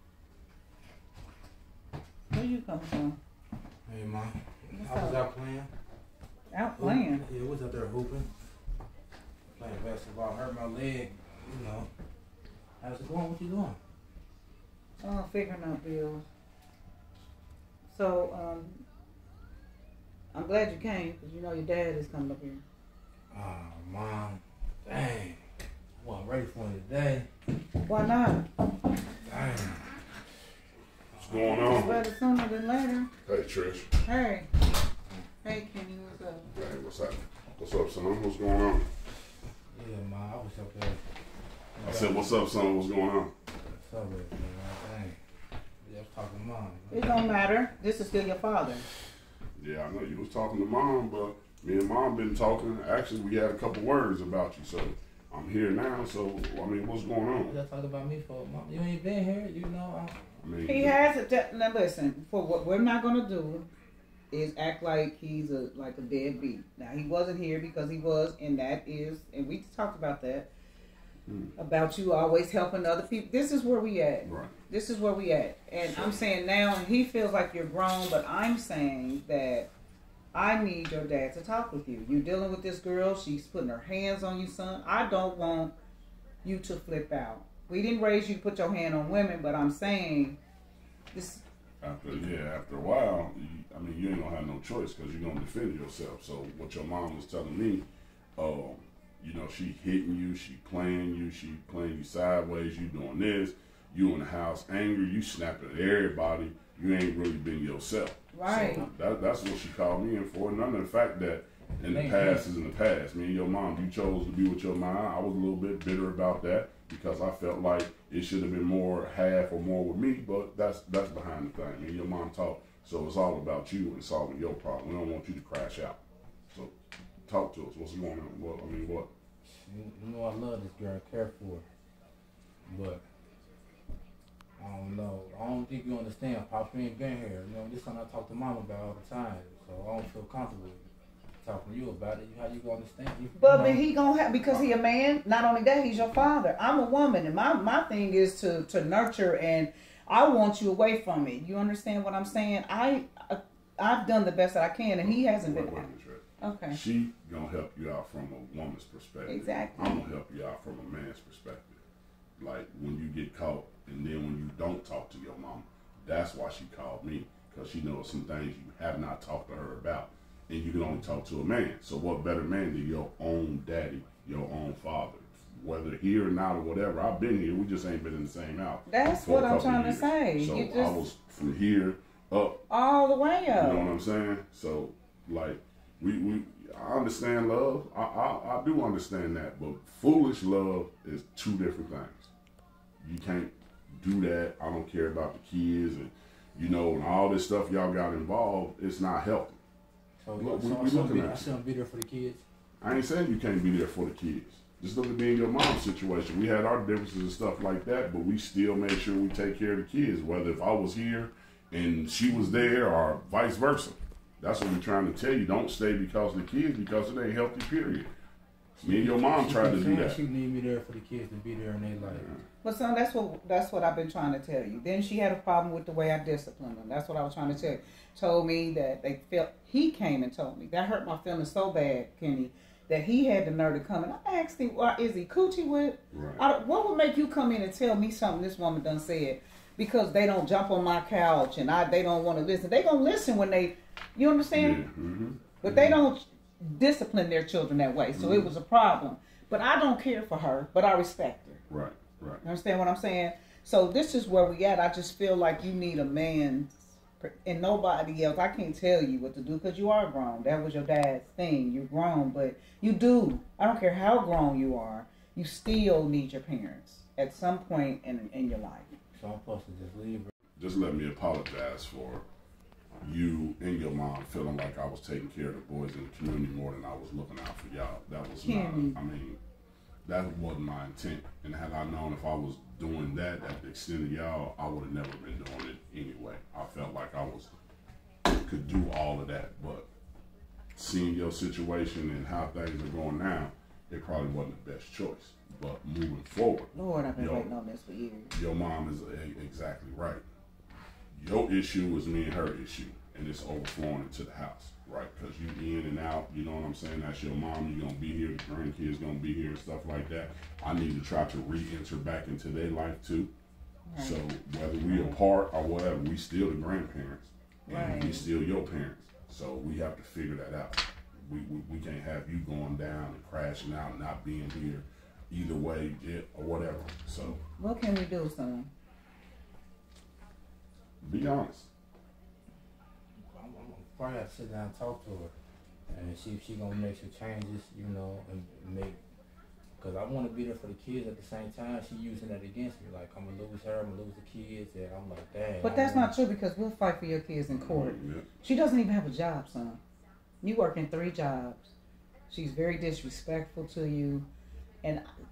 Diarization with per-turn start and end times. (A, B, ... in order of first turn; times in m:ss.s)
0:02.3-0:03.2 A
0:03.9-0:05.7 B
0:04.7-0:05.2 A
0:06.5-0:07.2 A
0:06.8-0:08.3 B
0:09.5-0:11.9 B
0:12.8-0:13.8 B
0:15.0-0:16.2 A
0:17.9-0:18.8 A
0:20.3-0:22.6 A
0:23.3-0:25.4 B
0:26.0-0:27.3 B
0:27.8-0:28.5 A
0:29.2-0:29.9 B
0:31.1-0:31.4 B
0:31.2-0:32.0 C
0:31.4-0:33.1 A
0:33.2-0:33.9 C
0:34.0-0:34.5 A
0:35.4-0:36.5 A
0:36.5-0:38.9 C
0:39.7-0:41.0 B
0:41.7-0:42.4 B
0:41.8-0:43.3 C
0:43.7-0:45.2 B
0:45.8-0:47.3 B
0:46.9-0:48.8 A
0:49.6-0:57.6 C
0:57.5-1:00.2 B
1:00.4-1:01.0 C
1:00.6-1:03.7 A
1:04.3-1:10.5 A
1:11.3-1:11.5 C
1:11.6-1:19.7 A
1:14.2-1:14.5 C
1:15.9-1:16.2 C
1:20.3-1:25.7 A
1:26.4-1:30.4 A
1:31.1-1:31.4 A
1:31.8-1:37.8 C
1:38.4-2:06.0 C
1:48.3-1:48.8 A
1:51.8-1:52.5 B
2:07.3-2:09.1 C
2:09.5-2:11.6 B
2:12.6-2:13.0 B
2:14.6-2:20.9 B
2:21.4-2:23.8 B
2:23.4-2:35.8 A
2:24.4-2:24.7 C
2:35.0-2:41.8 C
2:36.4-2:36.8 A
2:39.2-2:40.1 A
2:42.4-3:02.6 C
2:58.9-3:01.0 A
3:02.7-3:03.9 A
3:03.5-3:12.3 C
3:13.0-3:19.6 C
3:20.2-3:22.4 B
3:20.4-3:21.5 C
3:22.8-3:38.1 C
3:38.8-3:42.2 B
3:38.8-3:40.2 C
3:42.1-3:42.4 C
3:42.6-4:04.8 A
3:56.1-3:56.4 C
4:04.5-4:06.0 C
4:05.6-4:11.6 A
4:08.1-4:08.5 C
4:11.7-4:12.4 C
4:12.4-4:28.9 A
4:29.1-4:30.3 B
4:30.6-4:32.2 C
4:33.0-4:39.4 C
4:38.4-4:39.0 A
4:40.0-4:47.5 C
4:48.3-4:49.9 C
4:50.8-4:57.5 C
4:56.7-4:58.3 A
4:58.3-5:00.2 C
5:01.2-5:13.3 C
5:13.8-5:14.2 A
5:14.0-5:27.4 C
5:14.8-5:15.2 A
5:17.7-5:18.3 A
5:27.5-5:28.7 A
5:31.0-5:31.7 C
5:33.3-5:35.3 B
5:35.9-5:39.0 B
5:39.8-5:46.1 B
5:45.6-5:49.8 A
5:47.5-5:48.2 C
5:50.4-5:51.7 A
5:52.3-5:54.3 A